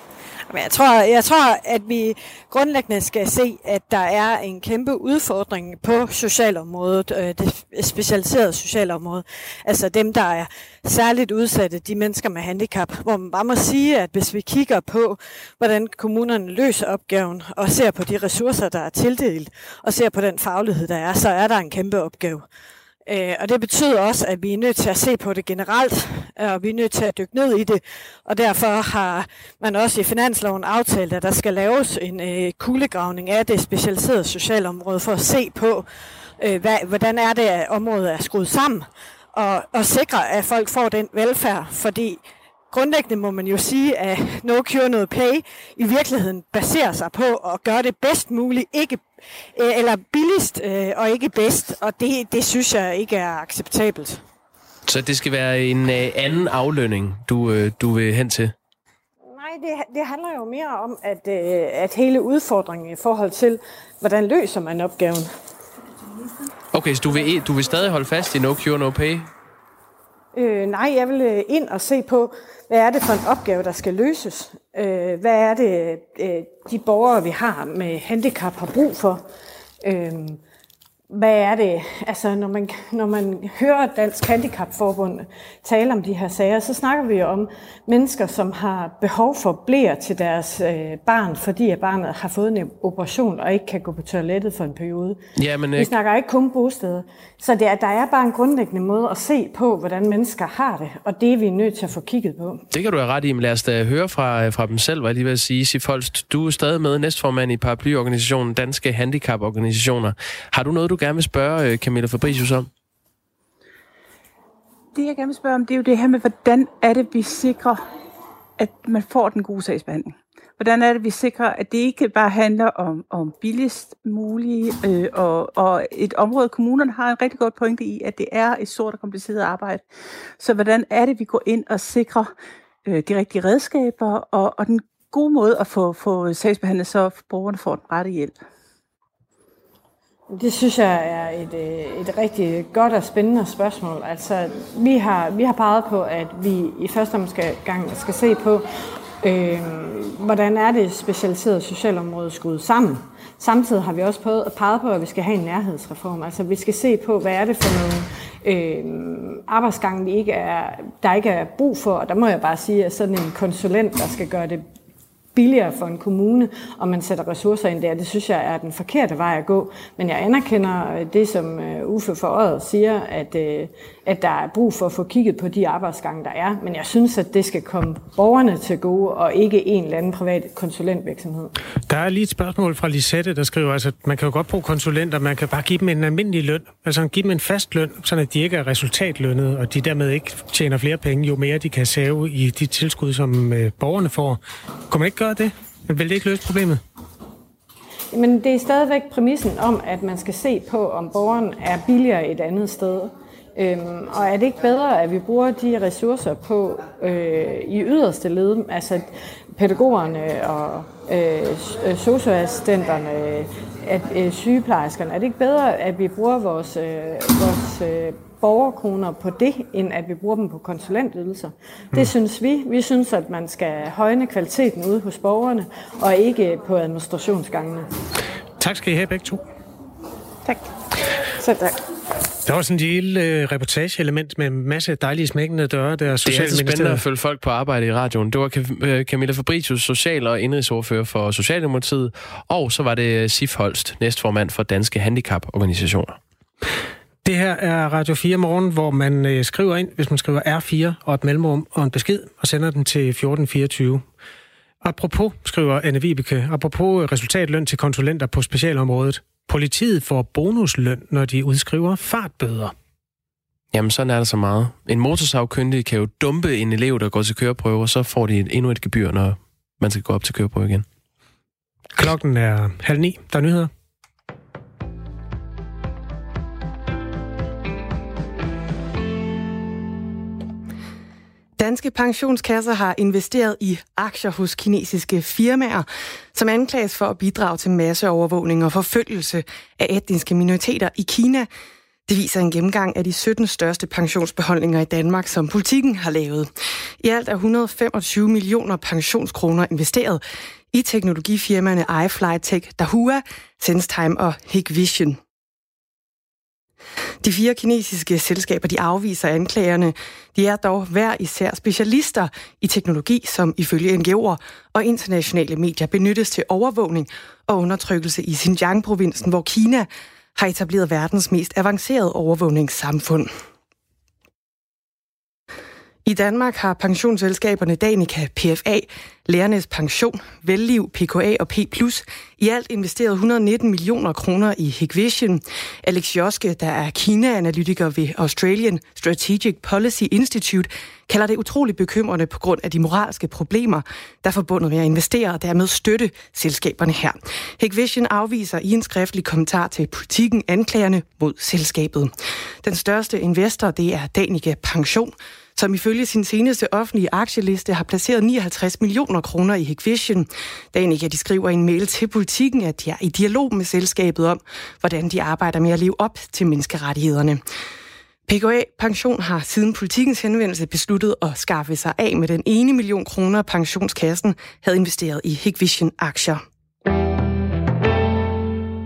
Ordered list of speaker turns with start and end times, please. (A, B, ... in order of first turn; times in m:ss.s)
0:00.5-0:22.4 A
0:23.0-0:35.9 A
0:36.4-0:49.0 A
0:49.5-0:54.2 A
0:54.8-0:58.5 B
0:59.3-1:05.3 A
1:06.7-1:09.3 B
1:10.3-1:19.2 A
1:19.8-1:20.4 A
1:21.1-1:35.2 A
1:35.4-1:35.9 B
1:35.8-1:42.6 A
1:42.7-1:52.7 B
1:54.9-1:57.8 C
1:58.6-2:09.8 C
2:10.4-2:12.3 C
2:12.8-2:18.4 C
2:20.3-2:28.6 A
2:29.2-2:44.6 A
2:45.3-3:01.5 A
3:01.9-3:16.8 D
3:18.1-3:47.9 A
3:48.6-3:49.4 D
3:51.4-3:51.7 A
3:52.4-3:57.0 D
3:56.2-4:06.2 B
4:07.2-4:14.0 D
4:14.8-4:22.7 D
4:23.7-4:30.8 B
4:32.0-4:33.7 D
4:41.6-4:51.5 E
4:52.1-5:05.2 E
5:07.2-5:23.3 E
5:26.0-6:07.4 E
6:08.3-6:16.4 E